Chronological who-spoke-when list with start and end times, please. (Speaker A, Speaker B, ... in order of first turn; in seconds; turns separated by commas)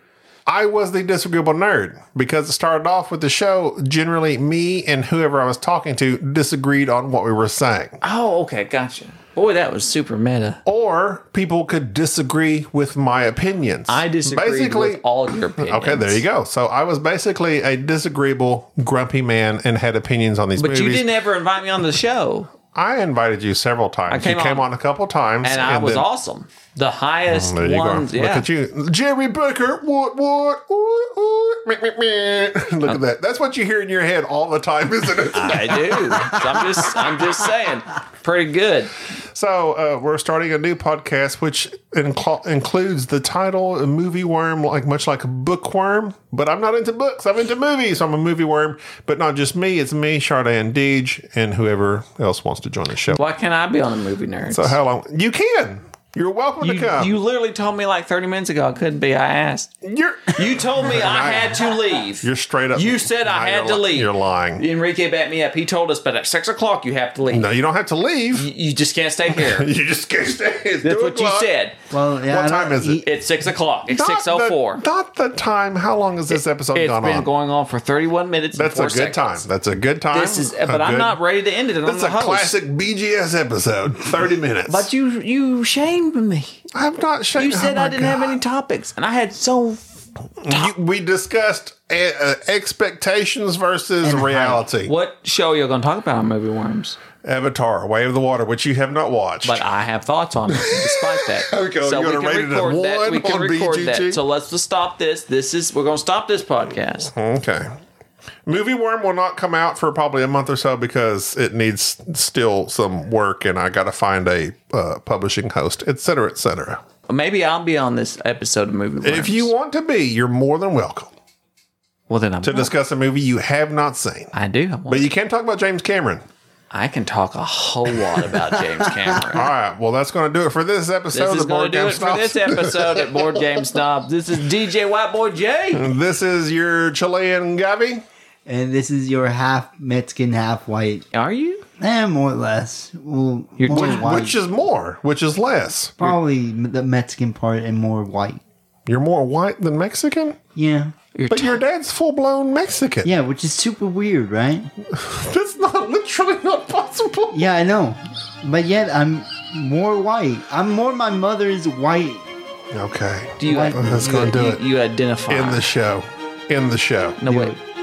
Speaker A: 0.5-8.0, Speaker B: 8.0-10.6, Speaker A: 10.6-15.0, Speaker B: 13.9-16.2, Speaker A: 15.6-21.1, Speaker B: 20.6-22.5, Speaker A: 22.7-26.1, Speaker B: 24.1-24.6, Speaker B: 25.4-28.5, Speaker A: 27.3-37.1, Speaker B: 35.3-38.9, Speaker A: 39.3-53.2, Speaker B: 53.1-54.8, Speaker A: 54.5-57.1, Speaker B: 56.6-59.7, Speaker A: 59.8-64.6, Speaker B: 60.3-64.1, Speaker B: 64.6-67.5, Speaker A: 67.3-68.5, Speaker B: 68.3-69.7, Speaker A: 69.3-71.5, Speaker B: 70.8-71.8, Speaker C: 71.9-73.0, Speaker A: 72.3-73.0, Speaker B: 73.0-74.8, Speaker A: 73.9-77.3, Speaker B: 76.3-79.4, Speaker A: 78.5-81.2, Speaker B: 80.1-82.5, Speaker A: 81.8-84.9, Speaker B: 84.7-86.6, Speaker A: 86.7-88.4, Speaker B: 87.4-89.8, Speaker A: 90.4-94.9, Speaker C: 94.0-94.6, Speaker B: 94.8-97.0, Speaker A: 97.2-99.6, Speaker B: 99.4-107.1, Speaker A: 100.5-104.2, Speaker A: 107.1-107.7, Speaker A: 108.5-116.8, Speaker B: 117.1-119.5, Speaker A: 119.0-121.1, Speaker B: 122.1-122.7, Speaker A: 122.4-124.3, Speaker B: 124.3-125.1, Speaker A: 124.9-126.2, Speaker B: 126.7-129.5, Speaker A: 129.2-133.5, Speaker B: 131.1-135.8, Speaker A: 135.7-138.0, Speaker C: 138.5-141.1, Speaker B: 141.1-141.6, Speaker C: 141.8-144.4, Speaker B: 143.6-144.2, Speaker A: 143.7-146.1, Speaker C: 146.0-148.4, Speaker A: 148.9-150.4, Speaker C: 150.6-150.9, Speaker B: 151.1-151.6, Speaker A: 151.3-153.1, Speaker C: 153.0-154.7, Speaker A: 154.9-157.4, Speaker C: 157.3-162.3, Speaker A: 162.7-164.6, Speaker B: 163.4-165.6, Speaker C: 163.4-164.1, Speaker A: 165.3-167.2, Speaker B: 167.2-167.6, Speaker C: 167.3-167.6